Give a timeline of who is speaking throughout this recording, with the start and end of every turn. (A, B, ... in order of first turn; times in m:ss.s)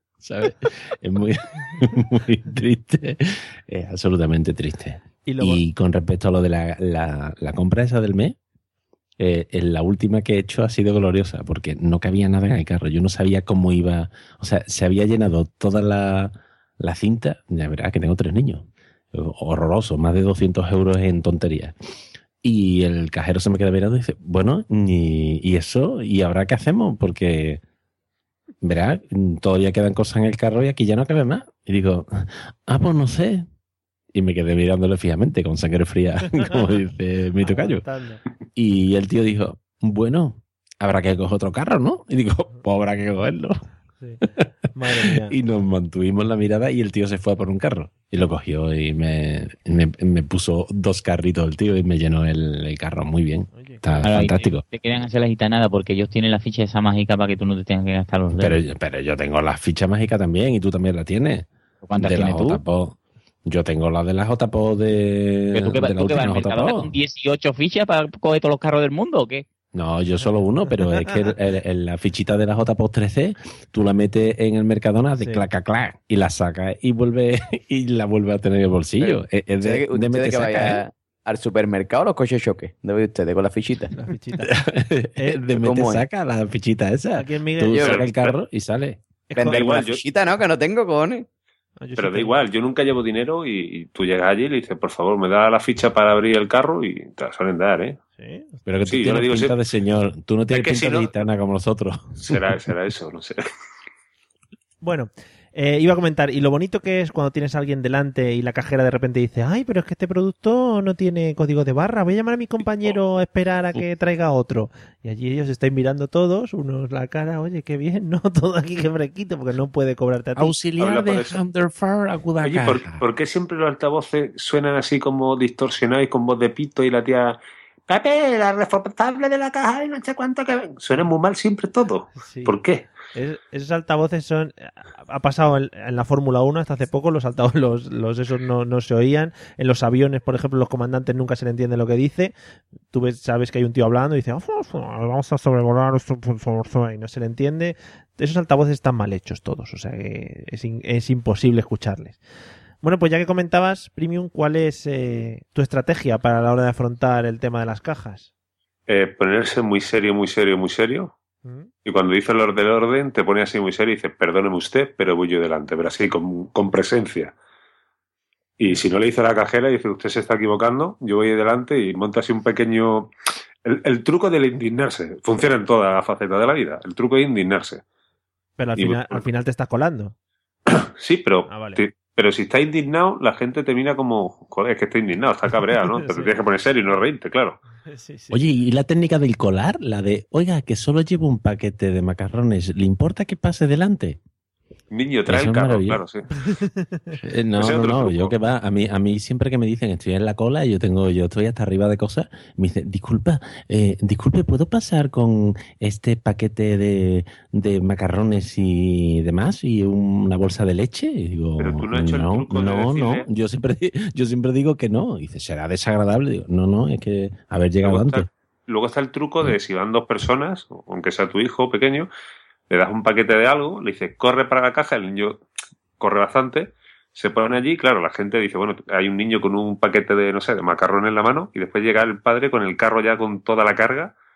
0:00.2-0:08.4 A
0:05.3-0:05.6 B
0:09.2-0:21.8 A
0:22.4-0:27.6 A
0:28.6-0:33.5 A
0:34.1-0:37.8 A
0:37.4-0:38.2 B
0:38.6-0:43.6 A
0:44.0-0:45.4 B
0:45.0-0:54.6 A
0:53.6-0:53.8 B
0:54.0-0:58.6 C
0:58.4-1:06.9 A
1:01.8-1:02.6 C
1:05.5-1:09.4 C
1:09.7-1:20.8 A
1:10.2-1:11.2 B
1:15.2-1:15.4 B
1:19.0-1:23.9 D
1:24.0-1:24.5 B
1:24.4-1:29.0 A
1:25.2-1:25.4 B
1:25.6-1:26.0 D
1:27.2-1:27.9 B
1:27.7-1:28.0 D
1:27.8-1:28.3 E
1:29.3-1:29.7 B
1:29.4-1:31.3 D
1:29.5-1:30.0 E
1:31.8-1:32.4 B
1:32.0-1:38.0 E
1:38.2-1:38.6 B
1:38.7-1:42.7 A
1:38.9-1:39.5 E
1:40.5-1:41.1 E
1:42.2-1:43.4 E
1:44.8-2:00.6 B
2:00.4-2:03.0 A
2:00.8-2:01.4 E
2:02.4-2:12.9 E
2:12.2-2:12.6 B
2:13.2-2:22.3 B
2:22.9-2:32.2 B
2:32.8-2:38.3 B
2:38.9-2:41.1 E
2:41.4-2:41.7 B
2:41.8-2:47.3 E
2:48.6-2:53.1 E
2:53.6-2:57.8 E
2:58.6-3:00.1 B
2:58.8-2:59.2 E
3:00.7-3:07.6 E
3:01.5-3:01.8 B
3:05.7-3:06.4 B
3:07.9-3:08.4 B
3:08.3-3:14.2 A
3:14.9-3:16.2 E
3:15.3-3:16.0 A
3:16.6-3:17.2 B
3:17.2-3:38.3 A
3:17.6-3:18.3 E
3:31.6-3:33.2 E
3:37.8-3:42.1 E
3:42.7-3:45.4 E
3:46.0-3:54.1 E